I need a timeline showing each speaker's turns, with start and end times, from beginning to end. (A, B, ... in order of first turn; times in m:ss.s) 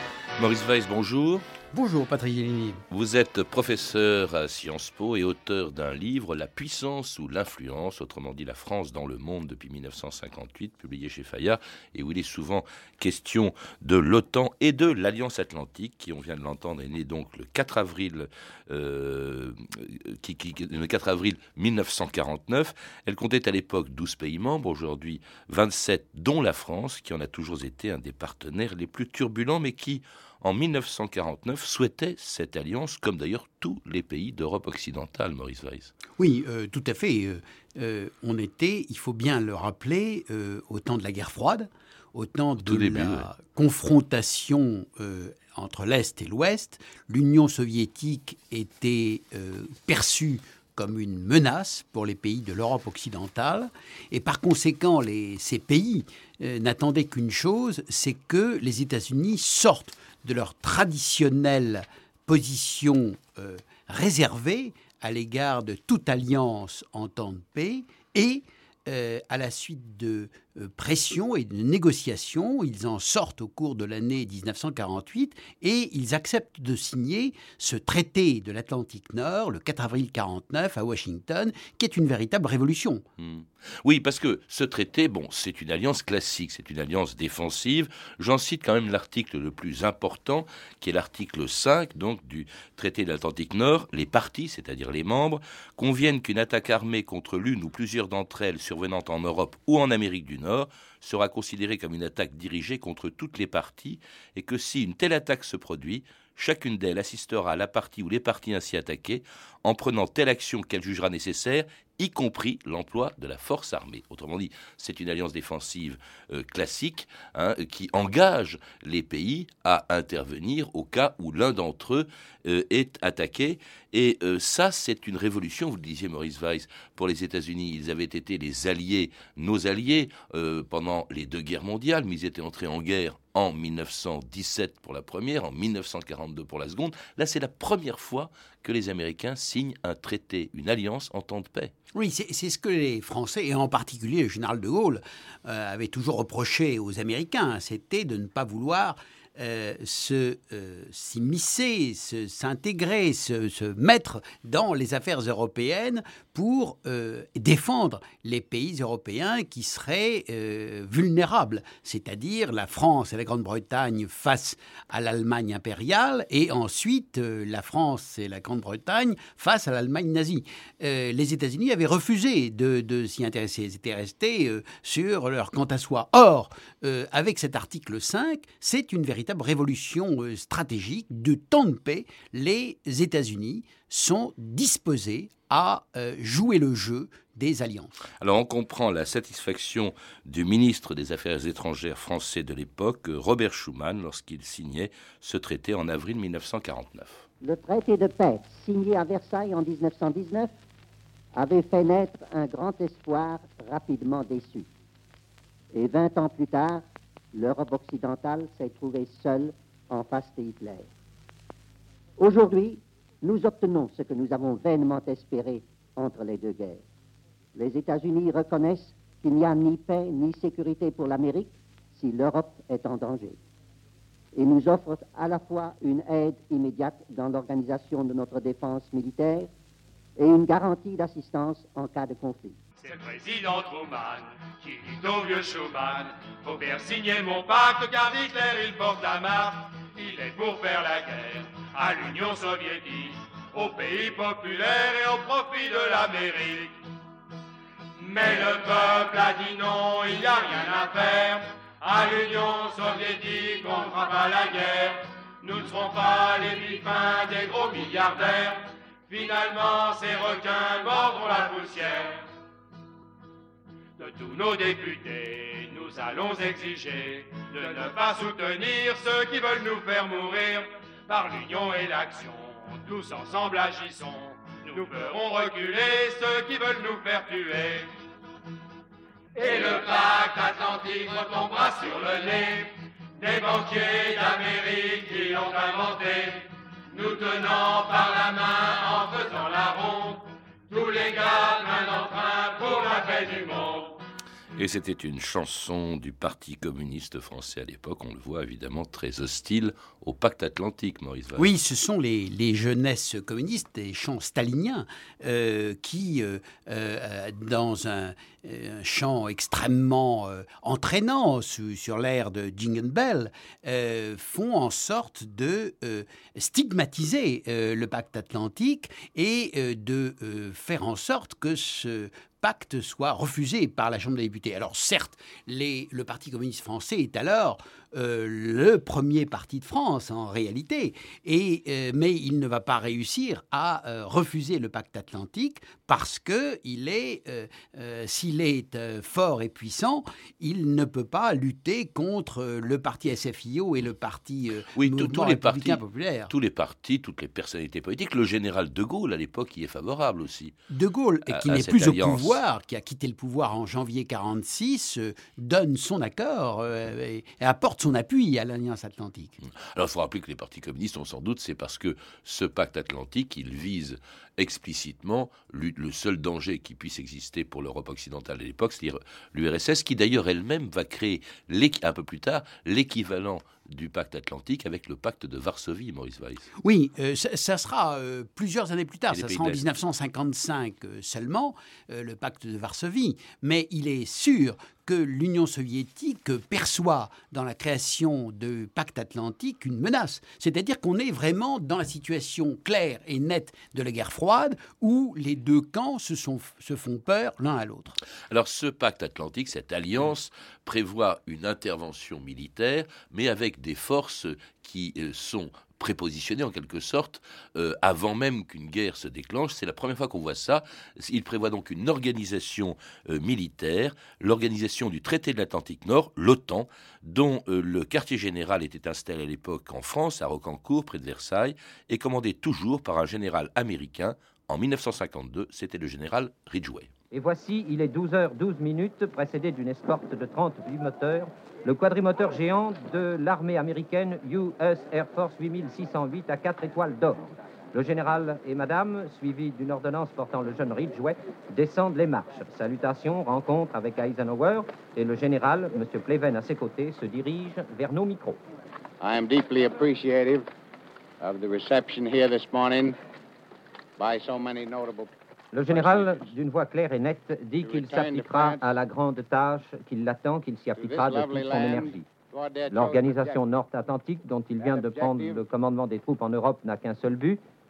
0:00.4-0:01.4 A
0:01.7-0:02.8 B
0:02.9-0:35.9 A
0:36.2-1:23.0 B
0:42.6-0:43.3 A
1:23.2-2:21.7 A
2:21.9-3:08.0 B
3:08.2-3:17.2 A
3:17.4-3:20.5 C
3:21.4-3:24.7 C
3:25.7-3:30.9 C
3:32.2-3:36.8 C
3:37.6-3:43.4 C
3:44.3-3:49.5 C
3:50.2-3:52.6 C
3:52.8-4:06.8 D
4:08.0-4:22.2 D
4:24.0-4:37.9 D
4:39.4-4:54.0 D
4:54.6-5:01.5 A
5:01.4-5:46.3 B
5:44.7-5:50.6 A
5:50.7-5:59.4 B
5:51.3-5:52.4 A
5:59.4-6:16.5 A
6:16.6-6:38.0 B
6:19.1-6:19.6 A
6:38.3-7:06.9 A
7:07.1-7:28.4 E
7:29.0-7:30.5 F
7:31.2-7:33.0 F
7:34.0-7:35.1 F
7:35.5-7:42.1 E
7:35.7-7:36.3 F
7:37.6-7:38.6 F
7:40.8-7:43.4 F
7:42.7-7:47.4 E
7:44.6-7:45.4 F